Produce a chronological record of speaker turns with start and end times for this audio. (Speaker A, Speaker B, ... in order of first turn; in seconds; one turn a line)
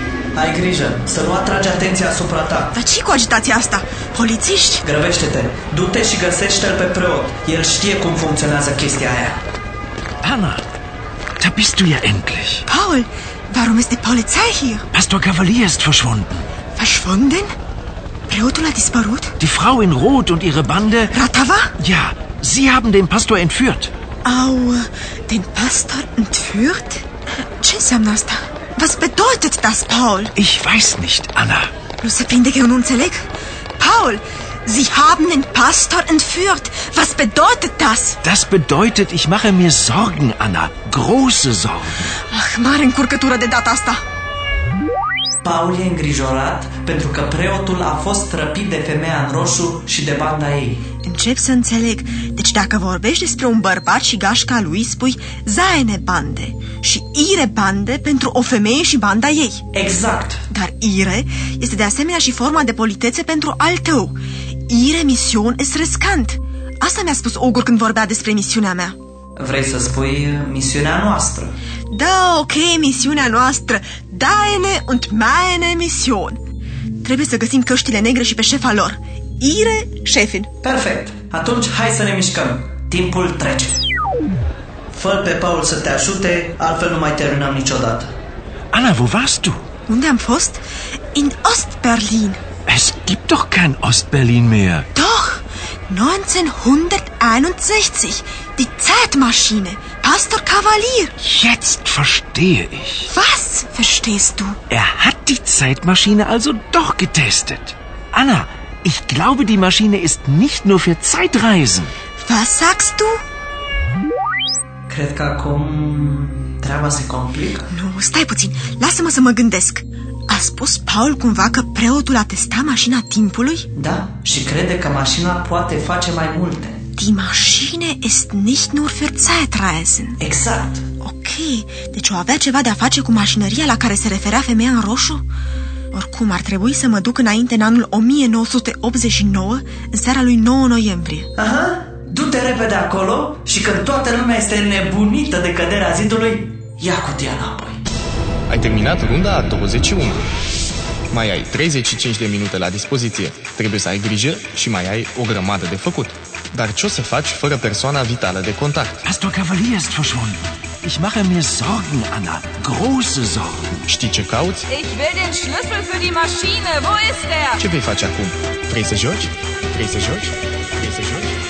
Speaker A: 0.3-2.7
Speaker B: 2.7-4.8
Speaker A: 4.8-9.4
Speaker C: 10.2-10.6
Speaker C: 11.4-12.6
Speaker B: 12.7-14.9
Speaker C: 14.9-16.4
Speaker B: 16.7-17.5
Speaker B: 18.3-19.4
Speaker C: 19.4-21.1
Speaker B: 21.1-21.8
Speaker C: 21.8-23.9
Speaker B: 24.2-30.4
Speaker C: 30.4-31.7
Speaker B: 32.0-38.2
Speaker C: 38.2-42.2
Speaker B: 42.3-44.0
Speaker A: 45.4-50.8
Speaker B: 51.0-59.6
Speaker A: 59.7-60.4
Speaker B: 60.5-69.0
Speaker A: 69.4-71.5
Speaker B: 71.9-76.4
Speaker B: 77.0-80.5
Speaker A: 80.6-83.8
Speaker A: 84.9-88.1
Speaker C: 88.7-89.6
Speaker B: 89.9-92.4
Speaker C: 92.7-94.9
Speaker B: 95.0-101.1
Speaker C: 101.2-103.1
Speaker B: 103.1-104.6
Speaker C: 104.7-111.9
Speaker B: 112.2-113.2
Speaker A: 114.9-117.7
Speaker B: 117.7-123.7
Speaker A: 123.7-126.8
Speaker B: 127.0-130.2
Speaker A: 130.2-130.8
Speaker B: 131.0-135.2
Speaker B: 135.9-141.3
Speaker A: 141.4-147.8
Speaker D: 148.5-150.2
Speaker D: 151.1-159.1
Speaker C: 159.1-163.8
Speaker D: 163.9-164.7
Speaker E: 164.7-167.6
Speaker D: 167.6-171.4